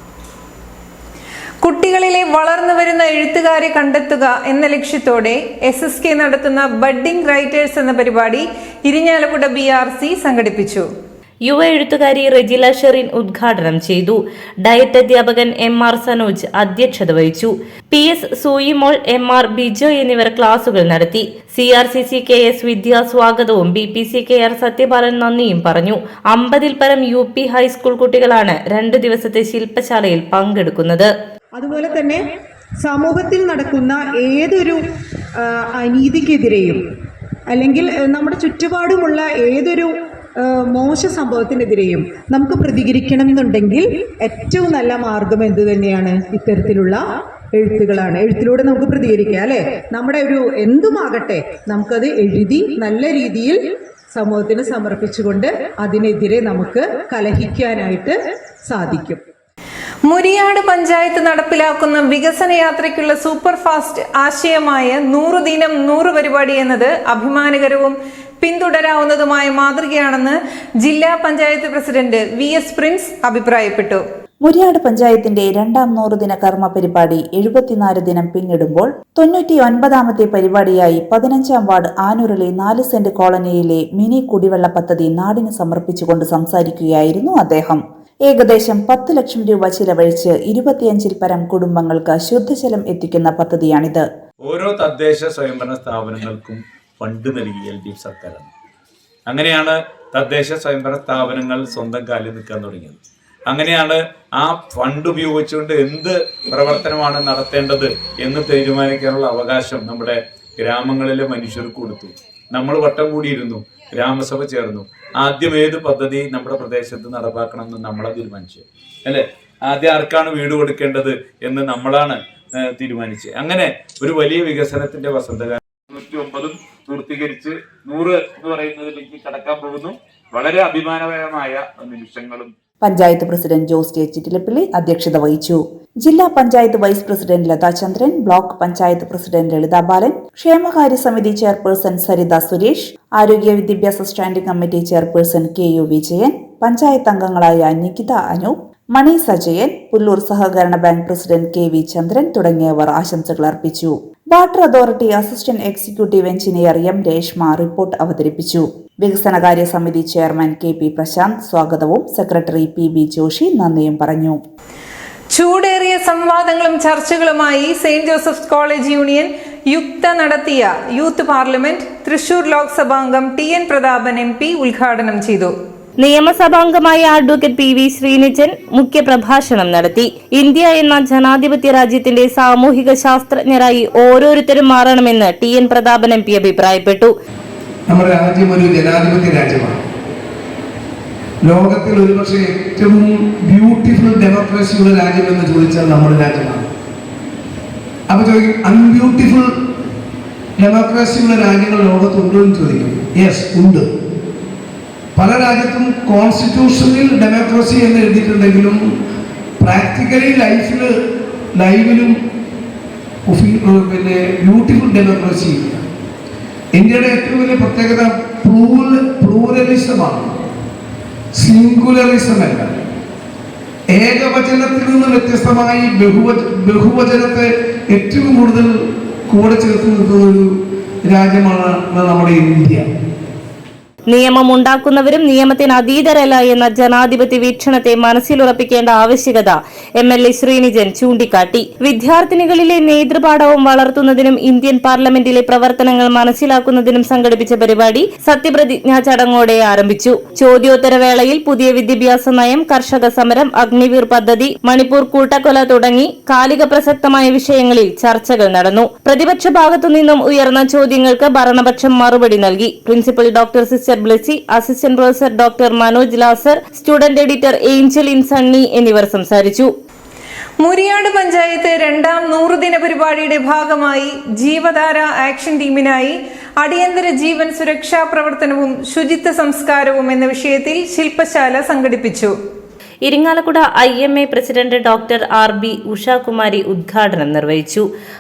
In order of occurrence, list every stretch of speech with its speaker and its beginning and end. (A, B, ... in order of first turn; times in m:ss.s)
0:01.6-0:10.9 A
0:11.5-0:31.1 B
0:31.6-0:32.2 C
0:32.8-0:34.8 C
0:35.5-0:36.8 C
0:37.5-0:59.2 C
1:00.1-1:14.0 A
1:14.4-1:34.0 D
1:34.5-1:38.5 E
1:39.3-2:12.5 E
2:12.8-2:44.4 D
2:45.3-2:55.5 A
2:56.0-3:07.1 B
3:07.9-3:09.8 F
3:11.4-3:16.7 F
3:18.1-3:19.5 F
3:20.6-3:23.9 F
3:25.2-3:28.8 F
3:29.6-3:30.9 F
3:31.6-3:32.2 F
3:33.3-3:35.8 F
3:36.8-3:40.3 F
3:41.4-3:42.7 F
3:43.9-3:48.7 F
3:49.3-3:50.5 F
3:51.1-3:52.9 F
3:54.1-4:29.7 B
4:30.6-4:42.3 A
4:43.1-4:47.9 B